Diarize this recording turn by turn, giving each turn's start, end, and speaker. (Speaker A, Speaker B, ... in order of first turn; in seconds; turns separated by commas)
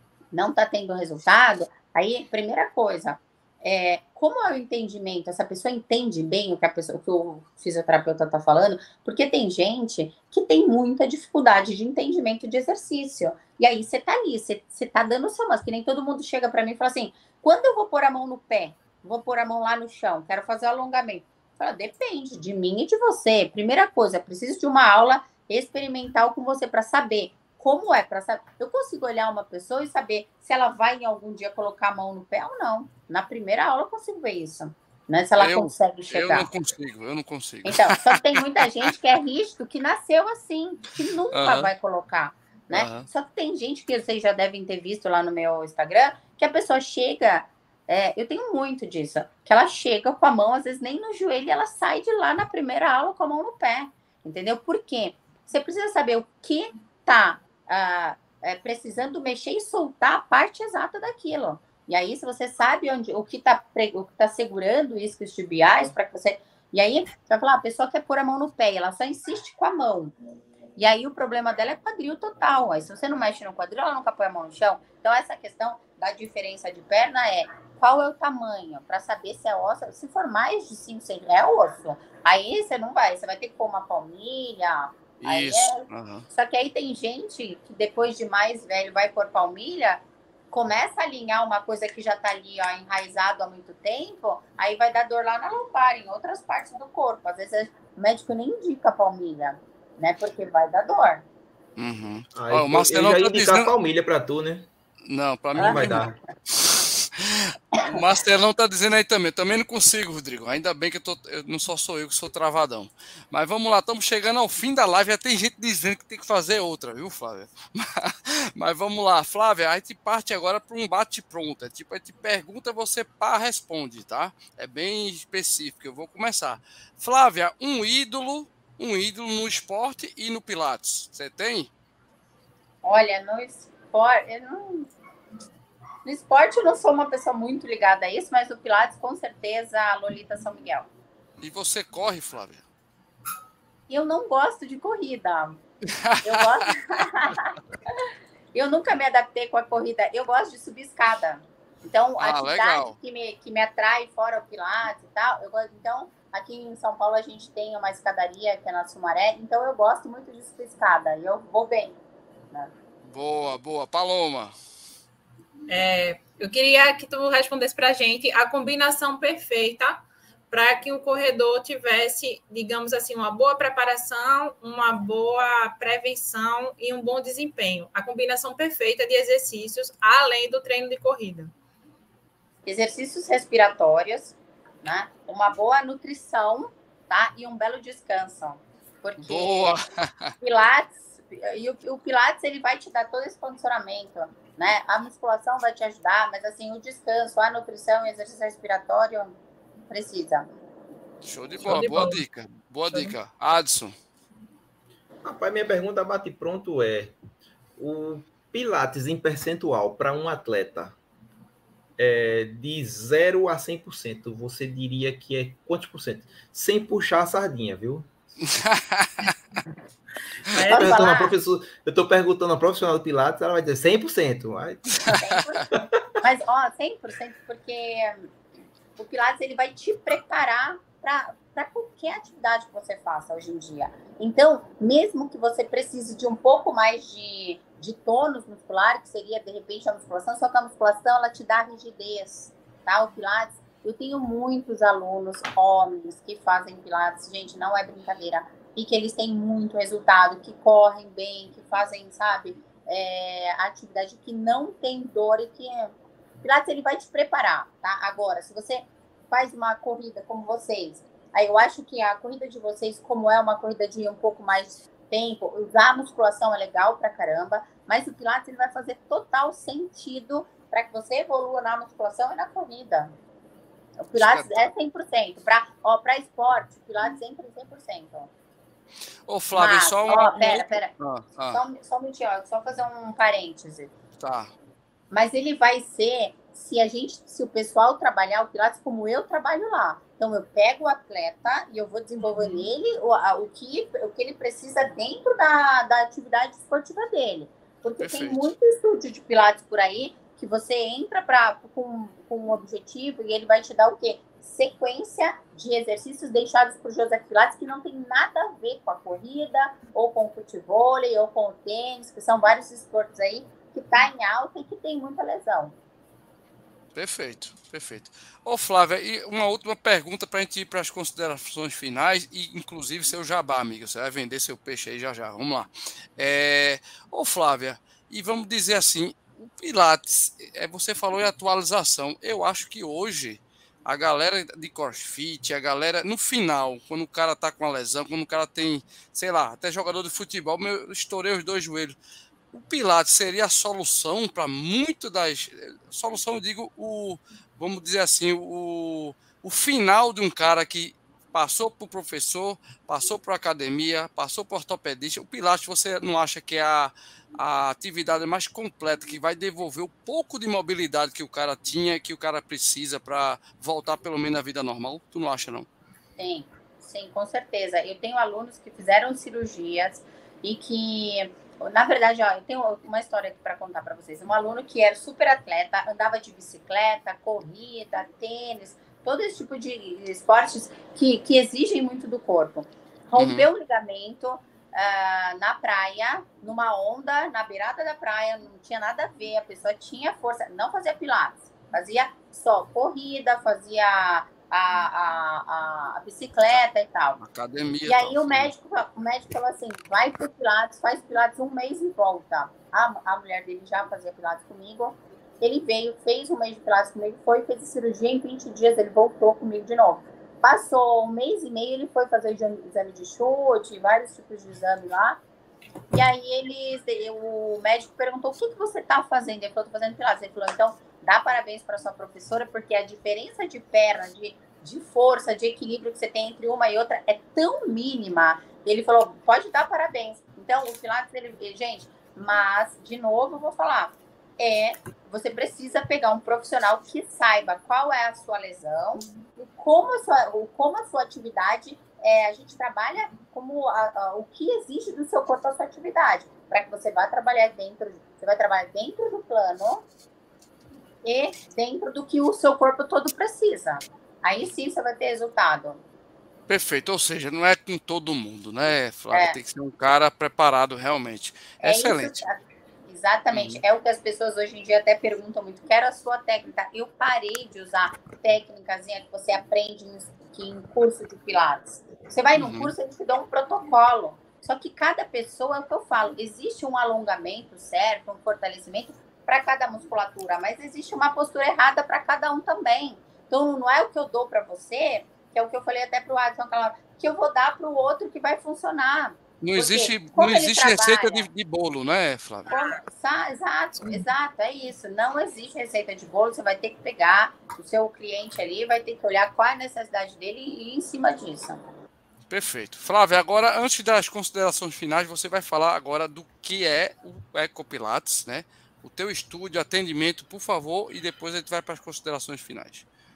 Speaker A: 0.3-36.5, Speaker B: 35.4-38.9, Speaker A: 37.6-70.1, Speaker B: 41.3-41.7, Speaker B: 42.7-43.1, Speaker A: 70.8-101.2, Speaker B: 85.2-86.2, Speaker B: 101.8-103.7, Speaker C: 102.3-104.7, Speaker B: 105.1-131.7, Speaker A: 105.6-106.0, Speaker C: 105.6-106.1, Speaker A: 132.8-134.9, Speaker A: 136.0-140.9, Speaker B: 141.4-142.6, Speaker A: 143.9-145.6, Speaker B: 146.0-146.7, Speaker A: 146.2-147.6, Speaker A: 148.5-162.0, Speaker B: 152.2-152.9, Speaker B: 163.0-164.5, Speaker D: 165.7-181.5, Speaker A: 182.7-189.8, Speaker B: 189.2-190.3, Speaker A: 190.4-199.4, Speaker A: 199.9-200.5, Speaker B: 201.2-203.9, Speaker D: 201.6-202.2, Speaker C: 205.2-207.2, Speaker C: 207.8-211.0, Speaker C: 212.0-218.1, Speaker B: 218.5-219.3, Speaker D: 220.5-220.9, Speaker C: 220.6-225.1, Speaker A: 220.7-221.3, Speaker A: 225.2-225.7, Speaker A: 226.2-228.3, Speaker A: 229.0-273.1, Speaker A: 274.0-278.3, Speaker B: 274.1-274.7, Speaker B: 279.3-281.6, Speaker A: 279.5-280.9, Speaker A: 281.5-283.9, Speaker B: 284.2-284.5, Speaker A: 285.1-315.7, Speaker B: 298.0-298.4, Speaker B: 316.9-341.9, Speaker B: 342.5-365.7, Speaker A: 366.2-397.2, Speaker B: 383.2-383.5, Speaker B: 397.2-398.5, Speaker A: 397.9-415.2, Speaker A: 415.9-449.9, Speaker A: 451.0-455.8, Speaker B: 456.5-462.2, Speaker A: 459.1-459.4, Speaker A: 461.6-491.3, Speaker B: 463.3-463.6, Speaker B: 472.3-472.7, Speaker B: 489.4-492.5, Speaker A: 492.5-501.6, Speaker B: 502.3-512.9